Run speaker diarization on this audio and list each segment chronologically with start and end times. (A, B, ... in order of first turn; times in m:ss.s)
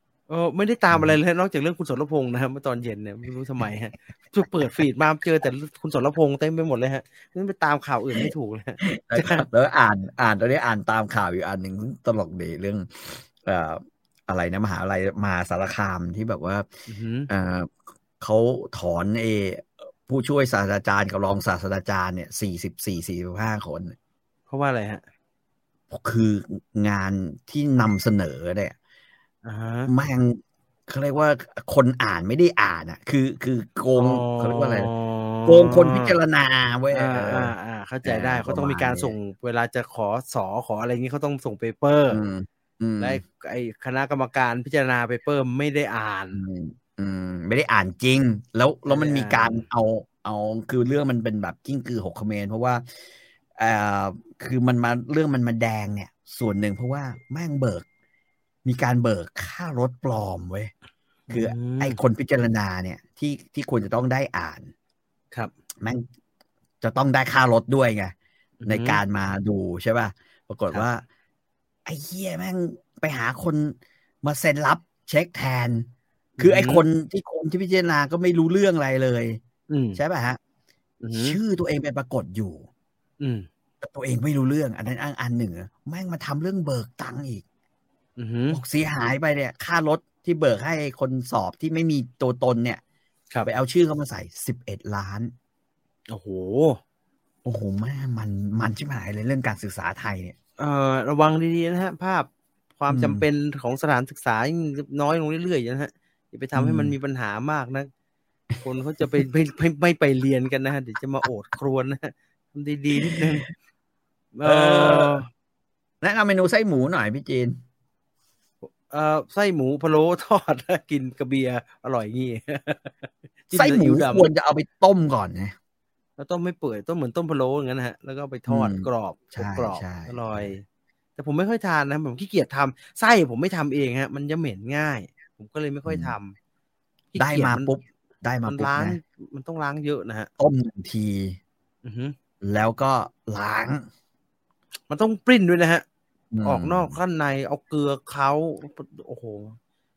0:00.3-0:09.4 A
0:00.9-0:01.2 B
0:08.8-0:16.7 B
0:16.9-0:17.3 A
0:17.3-0:24.0 B
0:24.5-0:25.0 A
0:25.9-0:28.7 B
0:29.4-0:29.9 A
0:29.9-0:34.9 B
0:34.0-0:36.2 A
0:35.4-0:37.5 B
0:36.9-0:42.2 A
0:38.0-0:39.1 B
0:42.1-0:43.2 B
0:43.0-0:46.4 A
0:46.3-0:57.8 B
0:48.9-0:49.6 A
0:58.6-1:00.7 B
1:01.3-1:02.0 A
1:01.3-1:04.7 B
1:05.8-1:06.1 B
1:06.8-1:08.1 B
1:08.6-1:09.0 A
1:08.6-1:11.0 B
1:11.8-1:15.9 B
1:16.4-1:16.8 A
1:16.4-1:19.4 B
1:19.7-1:20.0 A
1:19.9-1:20.4 B
1:21.0-1:21.4 A
1:21.1-1:22.7 B
1:23.2-1:23.5 A
1:23.8-1:27.4 B
1:28.2-1:28.6 A
1:28.5-1:32.8 B
1:33.4-1:35.3 B
1:36.1-1:36.8 A
1:37.4-1:40.3 B
1:40.6-1:47.9 A
1:42.9-1:43.2 B
1:46.6-1:47.0 B
1:48.6-1:53.5 A
1:53.0-1:53.3 B
1:54.4-1:55.3 A
1:54.4-1:55.2 B
1:56.0-1:57.6 B
1:58.6-2:04.3 A
2:03.5-2:05.5 B
2:06.2-2:10.6 A
2:08.5-2:10.5 B
2:11.2-2:16.4 A
2:15.8-2:16.2 B
2:17.1-2:17.7 A
2:17.2-2:19.0 B
2:18.5-2:20.3 A
2:20.4-2:21.4 B
2:21.8-2:22.1 A
2:22.4-2:23.8 B
2:24.9-2:25.8 A
2:26.3-2:27.0 B
2:26.4-2:29.6 A